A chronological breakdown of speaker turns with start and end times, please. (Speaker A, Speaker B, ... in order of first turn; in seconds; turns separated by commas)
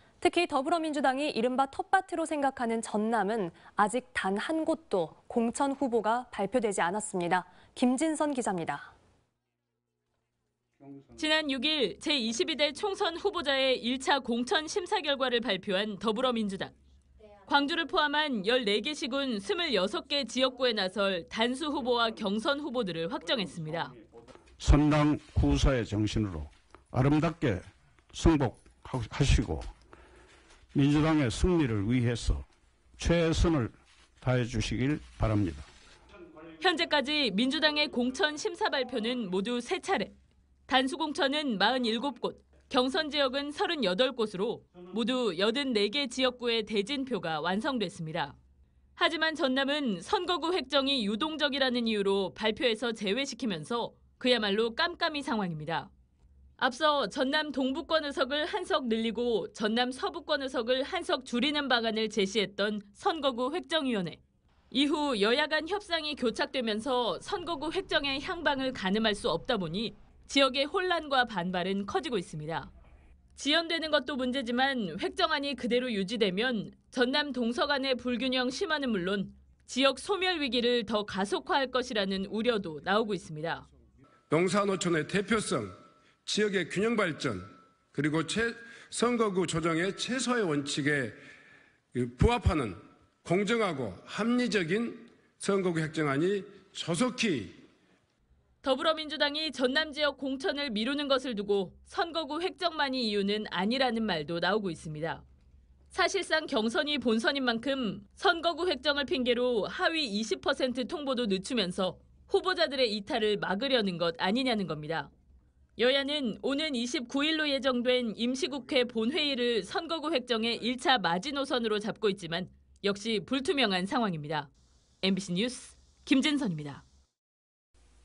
Speaker A: 0.2-8.9, Speaker B: 11.2-16.7, Speaker B: 17.5-23.9, Speaker C: 24.6-29.7, Speaker C: 30.7-32.5, Speaker C: 33.0-35.7, Speaker B: 36.6-40.1, Speaker B: 40.7-48.4, Speaker B: 49.0-55.9, Speaker B: 56.6-72.7, Speaker B: 73.3-83.6, Speaker D: 84.3-91.1, Speaker D: 91.9-97.6, Speaker B: 98.6-105.2, Speaker B: 105.9-115.1, Speaker B: 115.8-124.5, Speaker B: 125.0-126.8